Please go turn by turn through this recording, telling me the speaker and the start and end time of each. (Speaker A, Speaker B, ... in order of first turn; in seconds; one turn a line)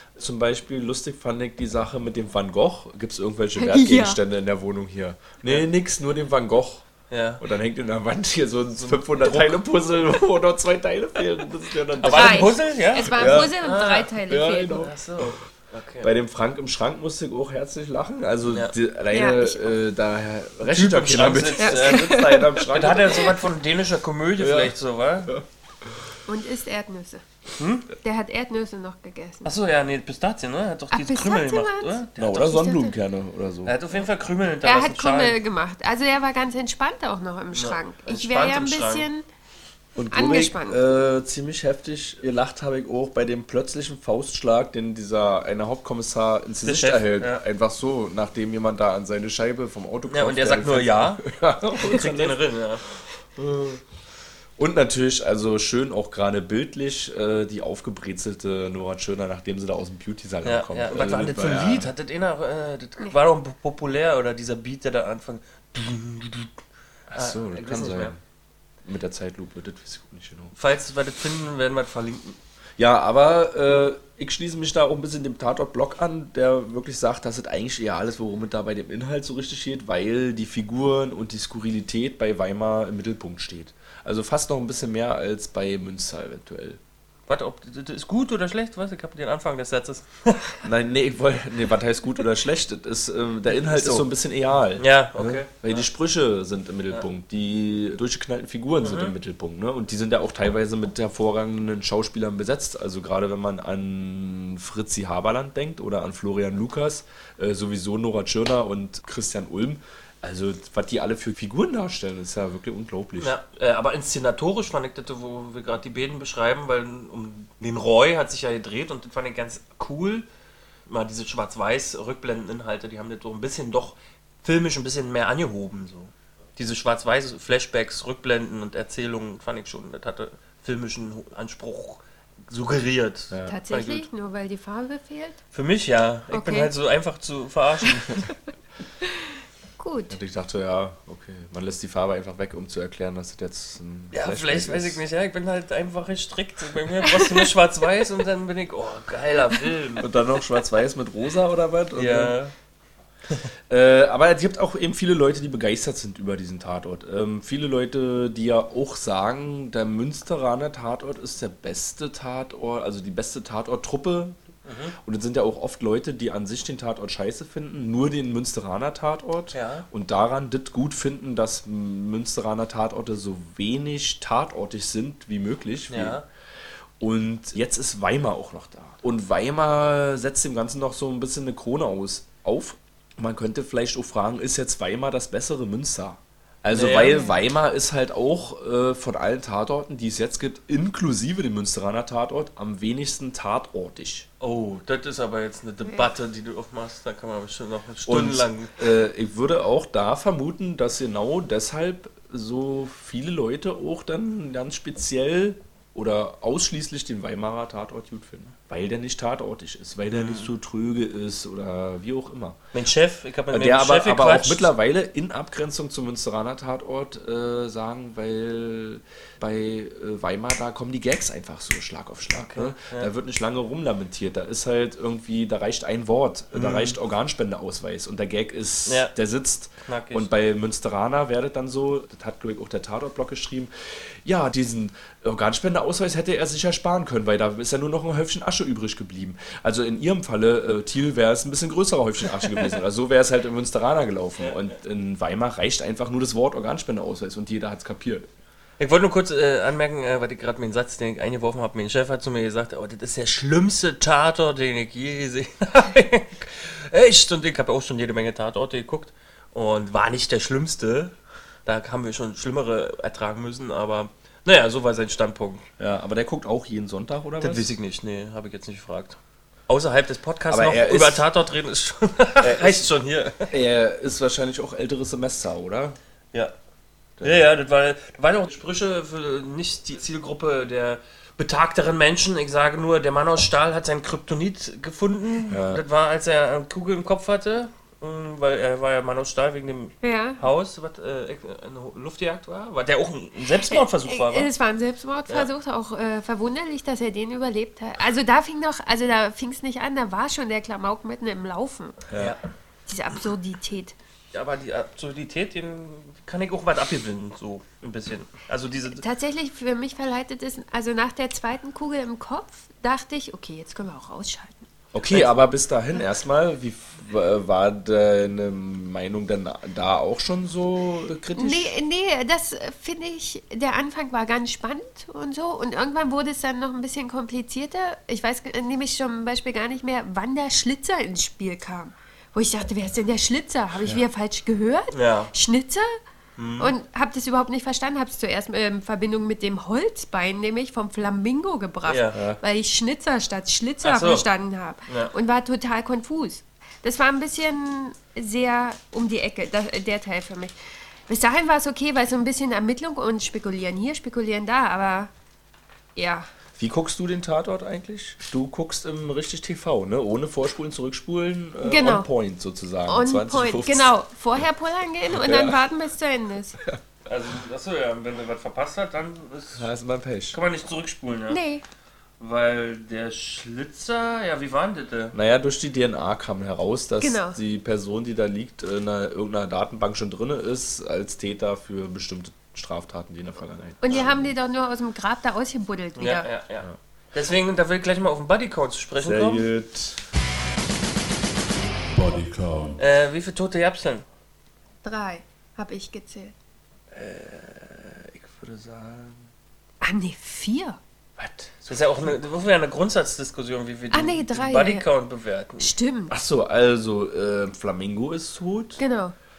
Speaker A: 0.2-6.9
Speaker B: 3.6-4.2
Speaker C: 7.1-7.4
Speaker A: 7.4-13.6
Speaker C: 9.1-9.6
Speaker C: 12.0-14.2
Speaker B: 12.0-14.9
Speaker A: 14.3-15.4
Speaker C: 14.7-16.1
Speaker A: 16.0-23.4
Speaker B: 19.1-19.8
Speaker C: 20.7-25.3
Speaker B: 21.6-22.6
Speaker A: 24.4-26.1
Speaker B: 26.3-27.2
Speaker C: 27.6-27.9
Speaker B: 28.0-29.5
Speaker C: 29.4-32.5
Speaker B: 30.9-33.0
Speaker A: 32.2-33.7
Speaker C: 33.6-35.4
Speaker B: 34.6-39.2
Speaker C: 37.5-39.1
Speaker A: 40.0-52.4
Speaker B: 40.1-40.8
Speaker C: 46.6-47.4
Speaker C: 50.1-52.8
Speaker A: 53.4-53.8
Speaker A: 54.6-61.9
Speaker C: 60.4-66.5
Speaker C: 67.1-68.2
Speaker A: 67.1-68.2
Speaker A: 68.8-70.5
Speaker C: 70.5-72.4
Speaker A: 72.8-86.8
Speaker C: 87.3-90.6
Speaker A: 90.6-113.4
Speaker C: 93.5-94.1
Speaker C: 94.8-95.8
Speaker C: 98.8-99.1
Speaker C: 113.2-120.3
Speaker C: 120.9-134.1
Speaker A: 133.3-133.6
Speaker B: 133.5-135.4
Speaker C: 135.5-138.3
Speaker B: 136.3-136.7
Speaker B: 139.8-140.2
Speaker A: 140.1-145.0
Speaker C: 144.1-150.1
Speaker A: 150.0-152.4
Speaker C: 151.9-152.5
Speaker A: 153.7-164.4
Speaker C: 164.7-165.0
Speaker A: 165.0-176.2
Speaker C: 169.5-169.9
Speaker C: 175.9-176.2
Speaker A: 177.0-194.3
Speaker C: 186.7-187.3
Speaker B: 187.0-187.3
Speaker C: 194.4-198.7
Speaker A: 198.1-212.6
Speaker C: 210.1-210.5
Speaker C: 212.7-214.7
Speaker A: 213.5-233.7
Speaker C: 222.3-223.1
Speaker C: 226.5-227.0
Speaker C: 228.9-229.1
Speaker C: 229.8-230.3
Speaker A: 234.2-248.3
Speaker C: 248.8-261.1
Speaker C: 261.7-265.7
Speaker A: 265.8-267.8
Speaker C: 267.4-269.2
Speaker C: 269.7-273.5
Speaker A: 270.5-271.3
Speaker A: 272.4-272.9
Speaker A: 273.5-276.0
Speaker A: 277.2-277.4
Speaker C: 277.2-294.5
Speaker A: 285.5-285.8
Speaker B: 290.0-290.4
Speaker B: 293.7-302.1
Speaker A: 302.1-302.4
Speaker B: 302.9-303.9
Speaker C: 304.3-309.0
Speaker B: 308.9-314.6
Speaker A: 314.9-321.7
Speaker C: 315.1-315.4
Speaker B: 321.4-336.0
Speaker C: 334.9-335.3
Speaker C: 336.4-336.7
Speaker B: 336.6-350.5
Speaker C: 341.9-342.2
Speaker A: 342.1-342.4
Speaker C: 343.8-344.3
Speaker C: 344.9-345.1
Speaker B: 351.1-355.1
Speaker B: 356.0-356.3
Speaker A: 356.6-364.4
Speaker B: 361.6-362.1
Speaker B: 362.9-366.6
Speaker A: 365.1-365.6
Speaker C: 367.1-369.7
Speaker A: 369.6-370.4
Speaker C: 370.3-371.4
Speaker B: 371.3-371.6
Speaker C: 372.2-375.1
Speaker A: 375.1-384.3
Speaker B: 377.0-377.4
Speaker B: 383.8-386.3
Speaker C: 386.0-389.5
Speaker A: 389.0-390.1
Speaker A: 391.9-392.8
Speaker C: 392.8-394.1
Speaker B: 394.8-396.3
Speaker A: 396.9-399.3
Speaker B: 399.8-400.8
Speaker A: 401.2-402.2
Speaker C: 401.7-405.7
Speaker B: 403.9-404.9
Speaker B: 405.6-406.2
Speaker A: 406.1-408.8
Speaker B: 408.8-409.1